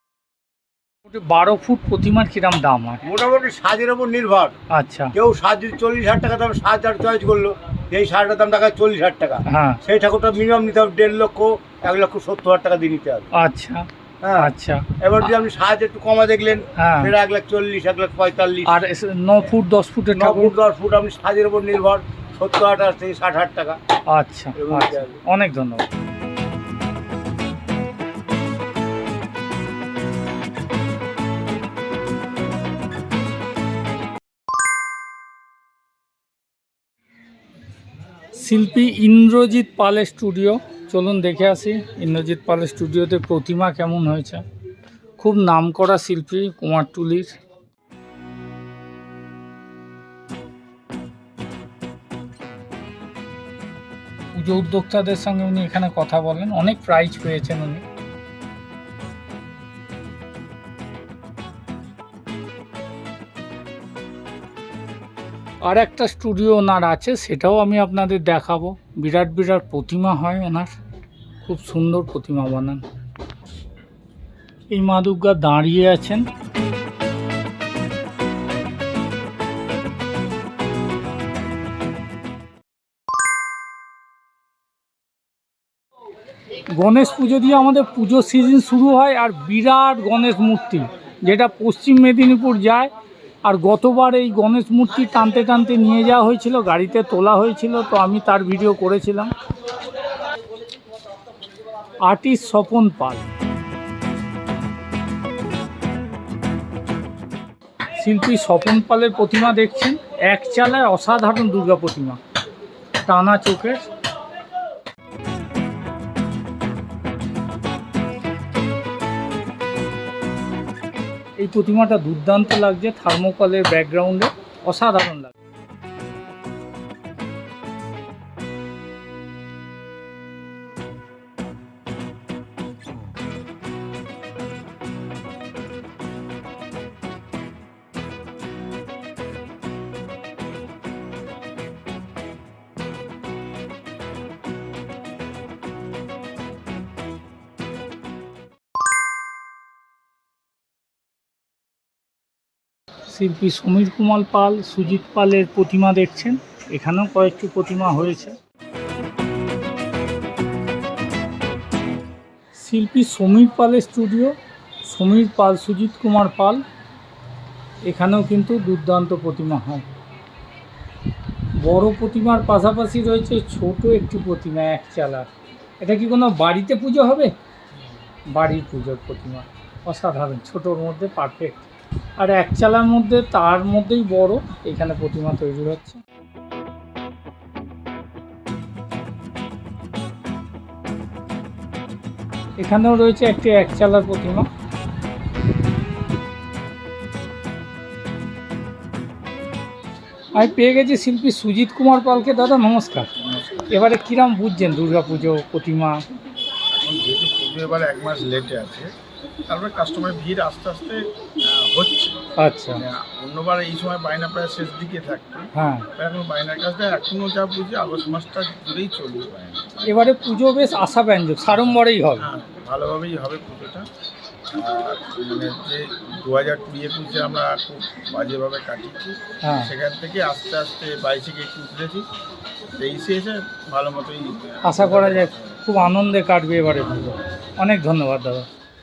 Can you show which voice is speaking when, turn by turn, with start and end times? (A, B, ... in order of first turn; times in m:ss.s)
0:01.1-0:03.0 A
0:03.0-0:04.5 B
0:04.7-0:05.1 A
0:05.2-0:13.3 B
0:09.5-0:09.8 A
0:13.3-0:14.9 A
0:14.2-0:18.8 B
0:16.8-0:17.1 A
0:18.7-0:20.5 A
0:20.2-0:23.8 B
0:24.1-0:25.8 A
0:24.6-0:25.2 B
0:38.3-0:44.4 A
0:45.2-0:47.4 A
0:54.3-0:57.8 A
1:05.6-1:10.8 A
1:11.4-1:12.8 A
1:14.7-1:16.3 A
1:26.7-1:32.9 A
1:33.4-1:39.3 A
1:42.0-1:43.2 A
1:48.0-1:52.2 A
1:53.0-1:53.9 A
2:01.4-2:05.3 A
2:33.1-2:38.4 A
2:42.6-2:46.6 A
2:47.9-2:49.9 A
2:51.6-2:55.3 A
2:55.8-2:57.3 A
2:58.3-3:01.6 A
3:02.2-3:06.0 A
3:12.6-3:14.5 A
3:20.4-3:23.1 A
3:23.2-3:23.7 C
3:23.7-3:26.0 A
3:26.8-3:28.9 C
3:29.5-3:32.2 C
3:32.4-3:32.8 A
3:32.8-3:39.9 C
3:35.5-3:35.9 A
3:39.9-3:42.3 A
3:41.6-3:43.9 C
3:44.5-3:52.1 C
3:49.4-3:49.7 A
3:52.8-3:55.6 C
3:54.6-3:58.5 A